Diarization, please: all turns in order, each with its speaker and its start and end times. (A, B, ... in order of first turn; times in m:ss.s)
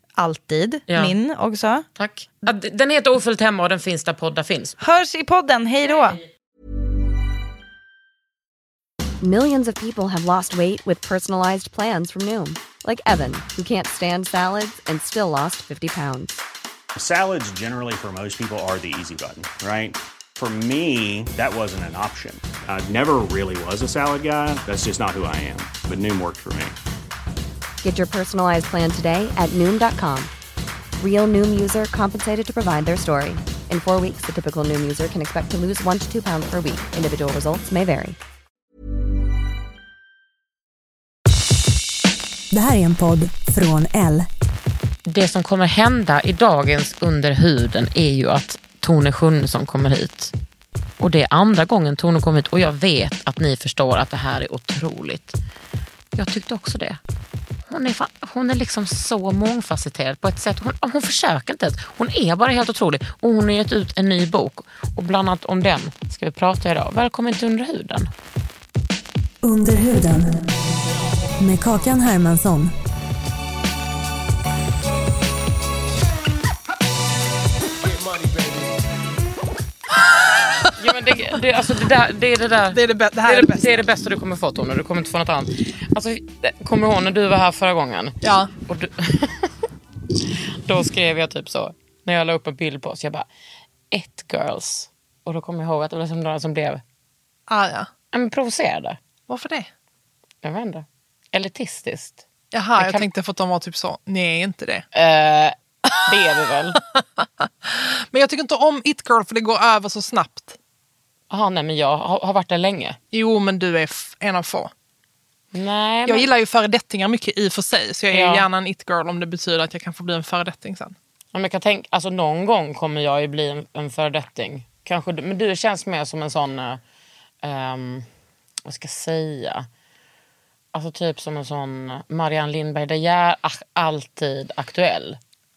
0:00.2-0:01.8 A
0:00.9-0:01.1 B
0:02.0-0:04.8 B
0:04.8-0:06.2 A
0:09.2-0:16.4 C
0:16.9-0:26.8 D
0:27.8-0:30.3 C
0:31.0-0:38.2 C
0:42.5-0:44.3 E
0:45.0-0:50.3 B
0:51.0-0:55.4 B
0:56.2-0:57.0 B
0:57.7-1:08.1 B
1:09.4-1:10.4 E
1:11.4-1:12.7 E
1:20.0-1:20.8 F
1:20.8-1:29.5 B
1:22.7-1:23.8 F
1:28.2-1:28.5 F
1:30.6-1:33.3 B
1:33.9-1:36.8 B
1:37.5-1:37.9 F
1:38.1-1:39.0 B
1:39.3-1:39.7 F
1:40.4-1:42.2 B
1:42.5-1:44.8 F
1:42.8-1:43.0 B
1:44.9-1:46.8 B
1:45.9-1:46.1 F
1:46.8-1:50.6 F
1:51.3-1:53.0 B
1:53.1-1:54.7 F
1:55.5-1:56.3 B
1:56.0-2:00.9 F
1:58.1-1:58.5 B
2:01.3-2:06.8 B
2:07.4-2:08.0 B
2:08.6-2:09.7 B
2:10.7-2:15.2 B